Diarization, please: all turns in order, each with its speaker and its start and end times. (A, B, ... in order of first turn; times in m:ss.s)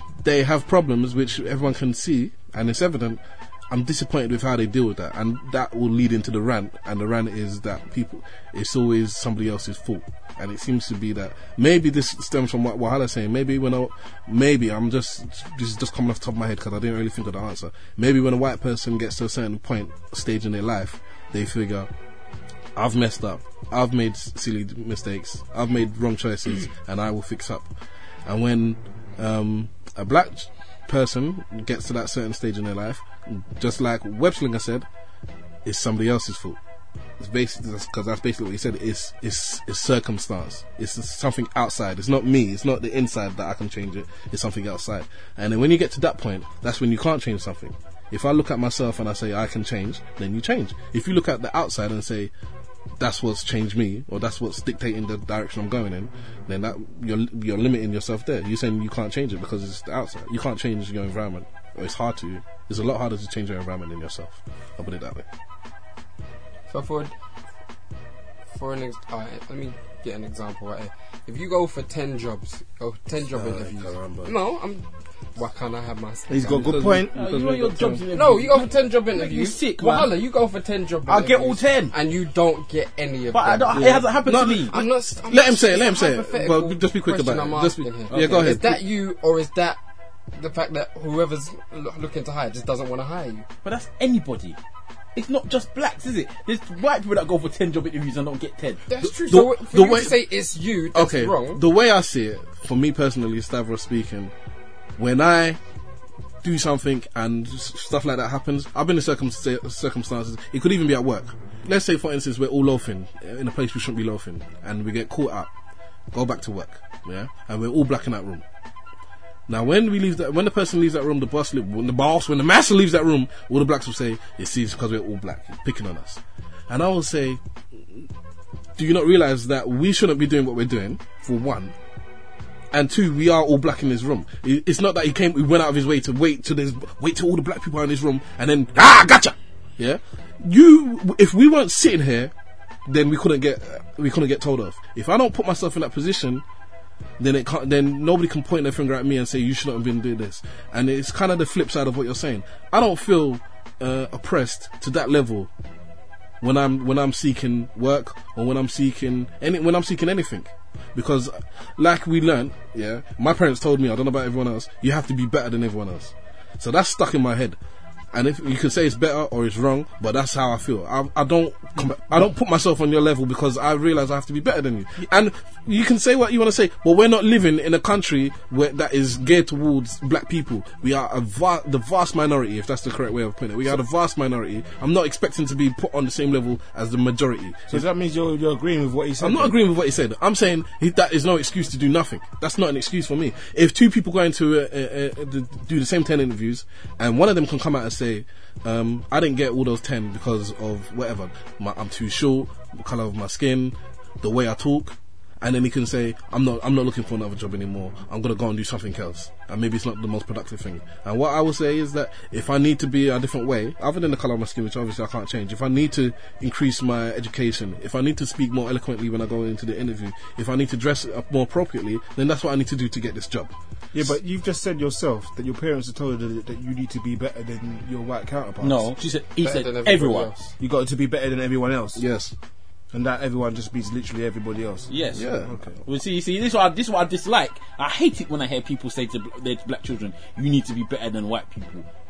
0:00.2-0:21.9 A
0:22.8-0:27.7 A
0:28.2-0:34.8 A
0:35.6-0:36.6 A
0:37.2-0:52.3 A
0:53.0-1:05.2 A
1:06.7-1:07.1 B
1:08.5-1:16.7 B
1:13.3-1:14.3 A
1:16.3-1:17.4 C
1:16.4-1:18.0 A
1:17.1-1:20.1 D
1:18.1-1:24.0 B
1:21.1-1:21.9 D
1:23.3-1:24.8 D
1:23.7-1:28.8 A
1:24.7-1:29.8 B
1:28.1-1:28.5 D
1:30.3-1:33.4 B
1:33.6-1:34.6 D
1:35.1-1:38.8 D
1:38.9-1:41.6 B
1:39.0-1:40.2 A
1:40.9-1:44.3 A
1:45.0-1:45.6 A
1:46.4-1:55.5 A
1:56.1-1:58.4 A
1:59.5-2:08.0 A
2:08.8-2:11.7 A
2:12.7-2:22.3 A
2:22.9-2:26.4 A
2:27.2-2:35.5 A
2:36.4-2:47.6 A
2:48.1-3:07.8 A
3:07.7-3:09.5 C
3:09.2-3:43.5 A
3:43.9-3:48.9 C
3:48.6-3:50.3 D
3:49.4-3:50.5 B
3:50.6-3:52.0 C
3:51.9-3:52.3 A
3:52.9-3:55.8 C
3:54.9-3:55.2 D
3:55.1-3:55.5 A
3:55.8-4:01.8 D